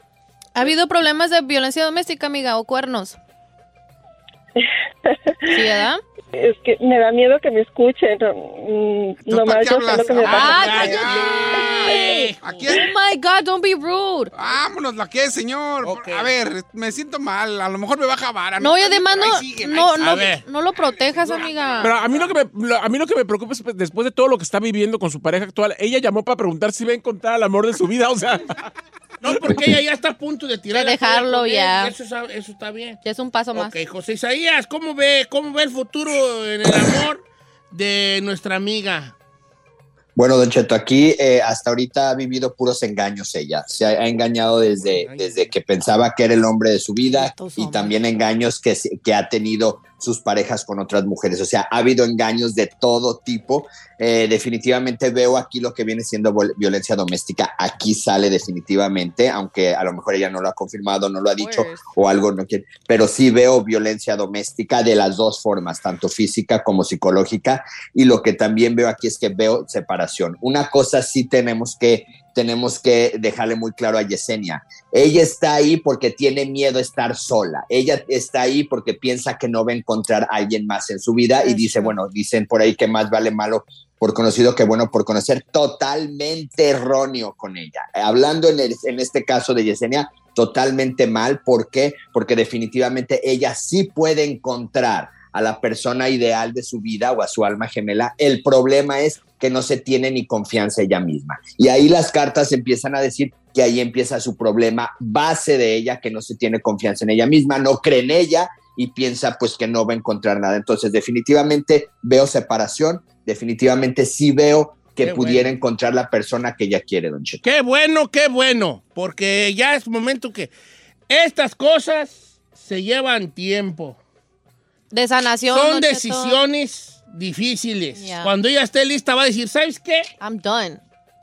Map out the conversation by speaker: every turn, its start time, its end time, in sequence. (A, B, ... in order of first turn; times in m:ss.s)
0:00.6-0:03.2 A
0:04.6-0:05.8 B
0:05.5-0:06.0 A
0:06.3-0:11.0 B
0:09.2-0:12.9 C
0:10.2-0:12.8 D
0:10.2-0:14.3 A
0:14.3-0:20.4 C
0:15.8-0:16.3 D
0:18.6-0:22.0 A
0:20.0-0:20.4 D
0:21.0-0:21.9 C
0:21.8-0:28.6 E
0:29.2-0:33.0 D
0:30.7-0:31.9 A
0:33.0-0:33.8 A
0:33.5-0:39.2 D
0:40.2-1:57.4 F
0:44.9-0:45.5 D
0:47.1-0:48.0 A
1:01.4-1:01.9 A
1:21.5-1:21.9 A
1:55.0-1:55.5 D
1:57.4-2:00.5 D
2:01.1-2:04.0 D
2:04.9-2:06.4 A
2:05.5-2:10.1 D
2:08.0-2:08.3 A
2:10.2-2:10.8 A